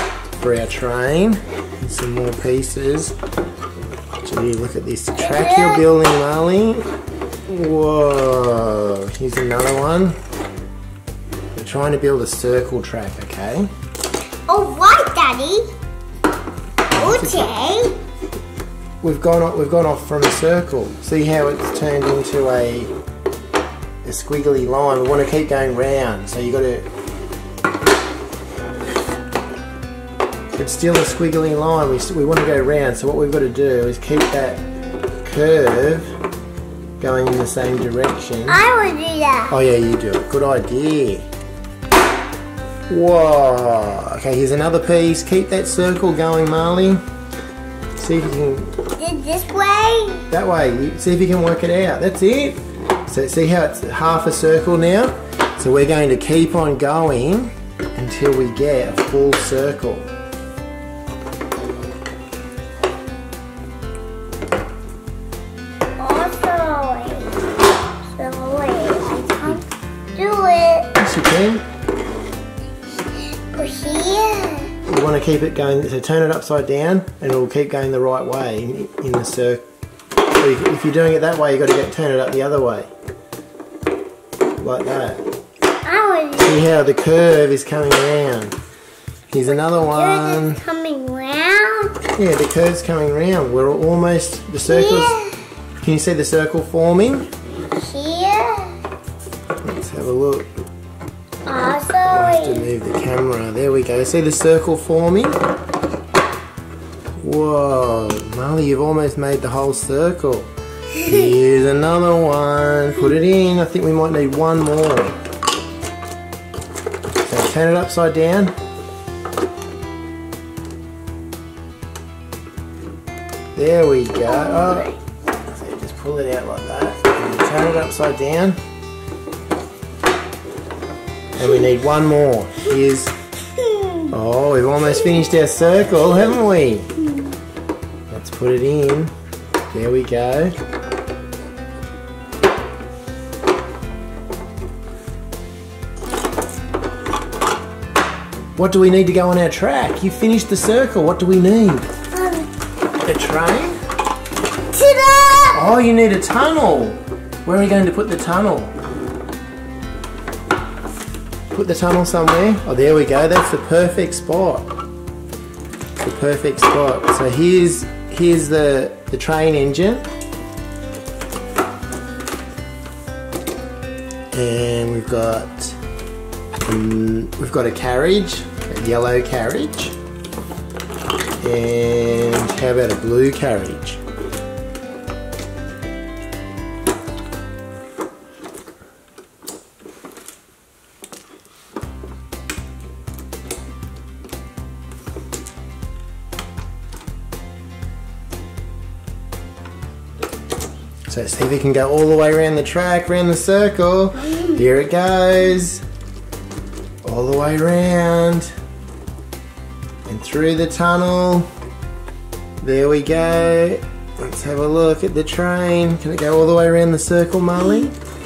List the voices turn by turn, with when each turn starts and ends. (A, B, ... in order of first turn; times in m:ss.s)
0:00.3-0:03.1 A
0:04.2-0:06.9 A
0:05.2-0:05.9 B
0:07.5-0:10.2 A
0:11.6-0:13.7 A
0:14.5-0:15.6 B
0:16.9-0:17.5 A
0:16.9-0:18.0 B
0:19.0-0:22.9 A
0:24.0-0:26.9 A
0:30.6-0:34.6 A
0:35.2-0:36.2 A
0:37.0-0:38.6 A
0:38.5-0:39.6 B
0:39.5-0:41.3 A
0:42.9-0:47.0 A
0:48.0-0:48.8 A
0:49.0-0:50.3 B
0:50.3-1:00.1 A
1:06.0-1:07.4 B
1:08.2-1:10.9 B
1:11.0-1:11.6 A
1:13.1-1:14.7 B
1:14.9-1:19.6 A
1:20.4-1:22.9 A
1:24.6-1:25.2 A
1:25.8-1:26.8 B
1:26.4-1:28.6 A
1:29.3-1:30.6 A
1:29.5-1:32.0 B
1:32.1-1:35.2 A
1:34.6-1:35.4 B
1:35.8-1:37.3 A
1:37.8-1:38.8 B
1:39.6-1:40.5 A
1:41.4-1:42.7 B
1:42.1-1:45.4 A
1:47.2-1:55.2 A
1:57.3-1:58.5 A
2:03.6-2:08.6 A
2:04.3-2:05.0 B
2:11.4-2:13.1 A
2:13.6-2:14.1 B
2:14.1-2:16.9 A
2:18.1-2:19.1 A
2:19.7-2:20.6 A
2:28.6-2:31.9 A
2:32.1-2:32.5 B
2:33.0-2:33.8 A
2:34.7-2:35.6 B
2:35.5-2:38.7 A
2:41.5-2:44.7 A
2:46.0-2:50.1 A
2:54.3-2:55.8 A
2:56.7-3:00.0 A
3:01.4-3:04.0 A
3:21.1-3:25.8 A
3:27.0-3:28.5 A
3:30.1-3:31.5 A
3:32.6-3:37.9 A